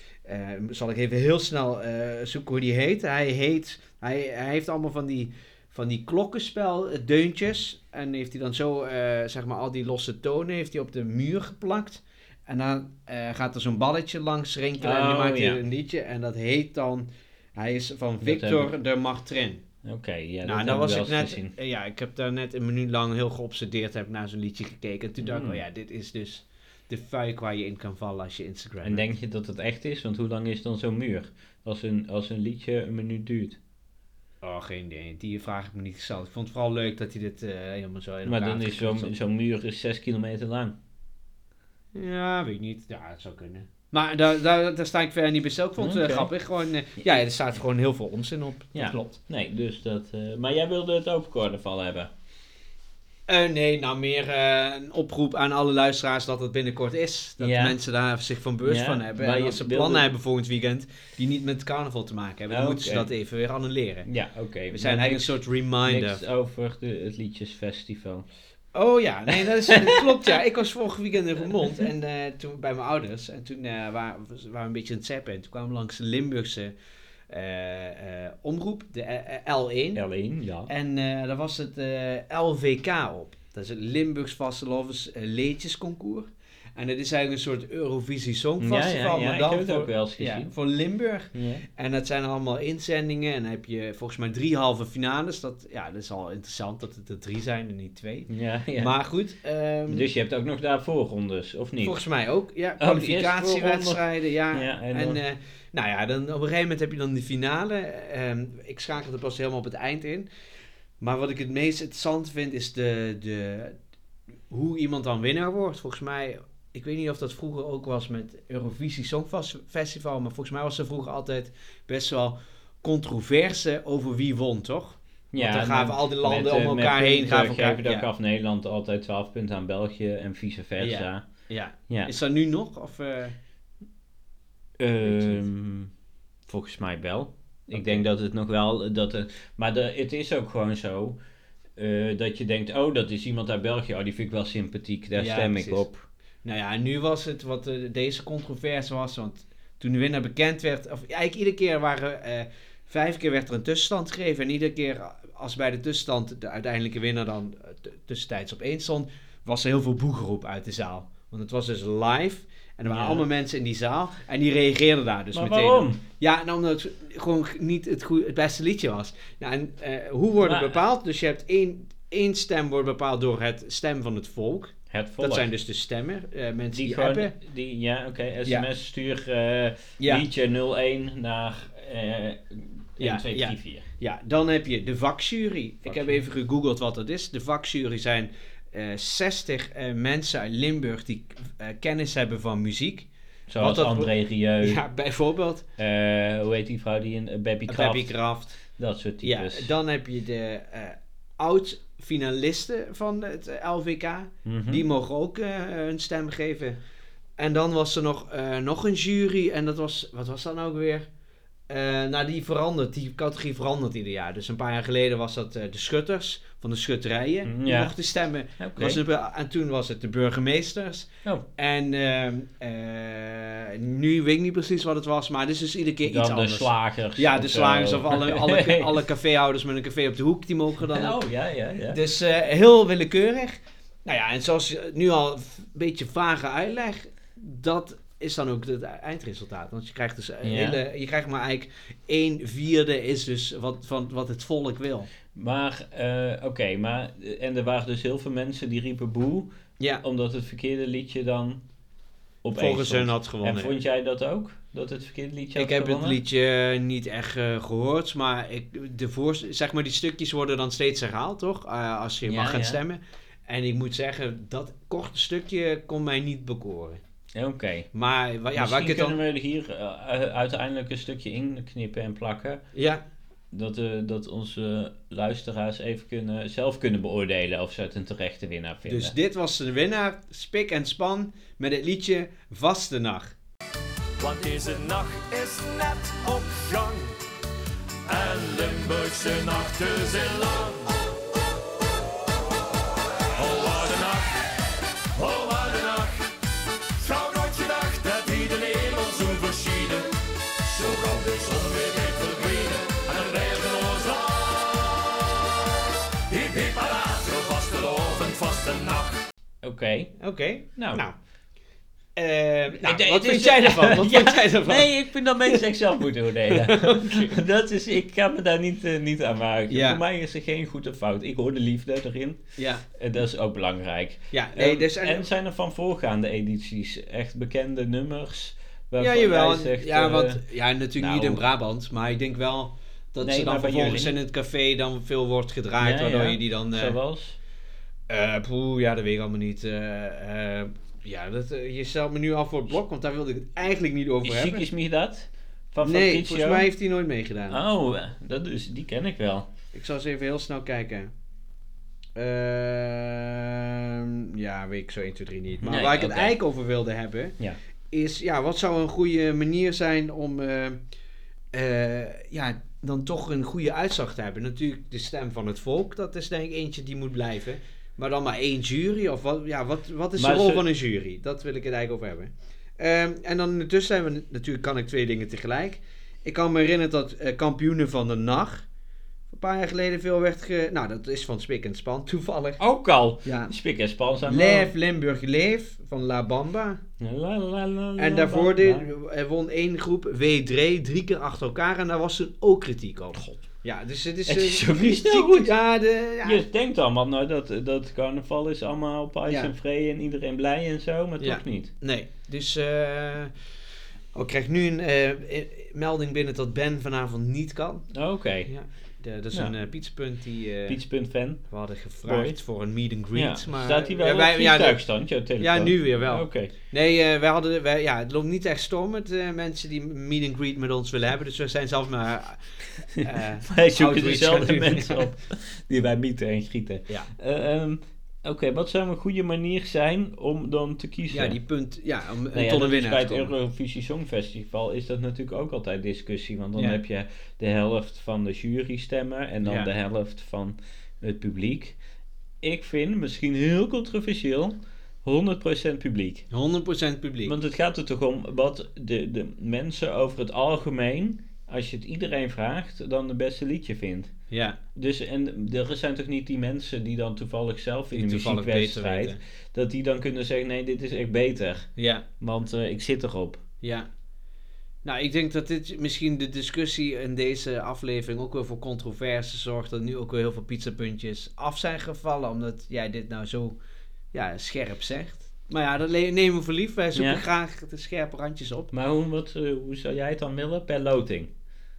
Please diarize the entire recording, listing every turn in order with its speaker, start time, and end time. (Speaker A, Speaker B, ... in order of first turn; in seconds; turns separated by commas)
Speaker A: 0.2-19.6, Speaker B: 14.8-15.6, Speaker B: 18.2-18.7, Speaker B: 19.8-21.5, Speaker A: 20.4-29.1, Speaker B: 25.2-25.6, Speaker B: 28.8-33.6, Speaker A: 34.4-39.1, Speaker B: 38.2-40.8, Speaker A: 41.9-49.2, Speaker B: 45.8-46.3, Speaker B: 48.7-52.1, Speaker A: 53.3-64.1, Speaker B: 57.4-57.8, Speaker B: 58.6-60.1, Speaker B: 62.5-63.1, Speaker B: 64.1-68.3, Speaker A: 64.7-66.2, Speaker A: 68.7-76.7, Speaker B: 69.7-70.0, Speaker A: 77.3-80.0, Speaker B: 79.9-80.7, Speaker A: 80.7-100.1, Speaker B: 88.6-90.5, Speaker B: 91.3-91.6, Speaker B: 98.3-98.9, Speaker B: 99.9-102.0, Speaker A: 101.8-110.3, Speaker B: 102.8-105.2, Speaker A: 111.0-113.8, Speaker A: 114.5-128.1, Speaker B: 125.3-131.2, Speaker A: 130.8-133.3, Speaker B: 134.8-135.9, Speaker A: 135.0-135.4, Speaker B: 136.5-141.2, Speaker A: 137.7-138.0, Speaker B: 141.8-146.1, Speaker A: 145.1-145.8, Speaker A: 146.4-177.3, Speaker B: 162.9-163.2, Speaker B: 165.3-166.0, Speaker B: 170.4-170.8, Speaker B: 174.9-175.5, Speaker B: 176.7-183.8, Speaker A: 180.0-180.2, Speaker A: 183.0-195.6, Speaker B: 185.8-186.2, Speaker B: 193.5-194.8, Speaker B: 195.8-199.7, Speaker A: 197.7-198.6, Speaker A: 199.2-206.8, Speaker B: 204.4-204.8, Speaker A: 207.4-211.1, Speaker A: 211.7-231.2, Speaker B: 217.4-217.9, Speaker B: 218.6-219.0, Speaker B: 226.0-229.0, Speaker B: 230.9-232.0, Speaker A: 231.9-245.1, Speaker B: 240.4-240.8, Speaker B: 245.3-249.5, Speaker B: 250.0-251.6, Speaker B: 252.4-256.2, Speaker A: 252.5-253.8, Speaker A: 255.6-267.0, Speaker B: 262.2-262.8, Speaker B: 267.3-267.9, Speaker A: 267.9-269.2, Speaker B: 268.5-272.6, Speaker A: 272.7-273.0, Speaker B: 273.5-279.1, Speaker A: 278.8-283.3, Speaker C: 284.2-287.2, Speaker C: 288.1-290.9, Speaker C: 293.3-294.4, Speaker C: 295.1-296.3, Speaker C: 296.9-305.4, Speaker C: 306.3-309.2, Speaker B: 309.6-310.1, Speaker A: 310.2-311.1, Speaker B: 310.8-311.0, Speaker A: 312.1-314.9, Speaker B: 312.8-322.4, Speaker A: 316.5-317.4, Speaker A: 319.7-320.0, Speaker A: 322.6-322.8, Speaker B: 322.9-330.4, Speaker A: 324.3-325.3, Speaker A: 329.0-336.9, Speaker B: 331.0-331.4, Speaker B: 333.2-334.2, Speaker B: 335.8-337.4, Speaker A: 338.1-344.6, Speaker B: 344.2-346.7, Speaker A: 345.8-347.6, Speaker B: 347.5-349.5, Speaker A: 349.7-351.1, Speaker A: 352.1-357.4, Speaker B: 355.6-356.4, Speaker A: 357.9-360.8, Speaker A: 361.5-378.6, Speaker B: 370.1-370.6, Speaker A: 379.3-382.6, Speaker B: 382.6-384.7, Speaker A: 383.2-383.5, Speaker A: 384.2-386.8, Speaker B: 387.0-388.9, Speaker A: 388.0-396.4, Speaker B: 394.2-395.5, Speaker B: 396.2-401.7, Speaker A: 401.2-403.3, Speaker A: 404.1-407.9, Speaker B: 407.9-408.5, Speaker A: 408.4-410.8, Speaker B: 410.7-411.5, Speaker A: 411.5-414.8, Speaker B: 412.0-412.4, Speaker B: 413.1-416.5, Speaker A: 415.4-425.1, Speaker B: 423.0-431.4, Speaker A: 431.1-433.3, Speaker B: 432.3-441.8, Speaker A: 439.4-439.7, Speaker B: 442.4-446.3, Speaker A: 446.3-447.3, Speaker B: 447.2-454.1, Speaker A: 454.3-454.6, Speaker B: 454.7-461.7, Speaker A: 457.9-459.2, Speaker A: 461.8-462.0, Speaker B: 462.2-463.4, Speaker A: 463.6-463.9, Speaker A: 464.8-473.6, Speaker A: 474.1-478.7, Speaker B: 476.9-477.2, Speaker B: 478.7-481.3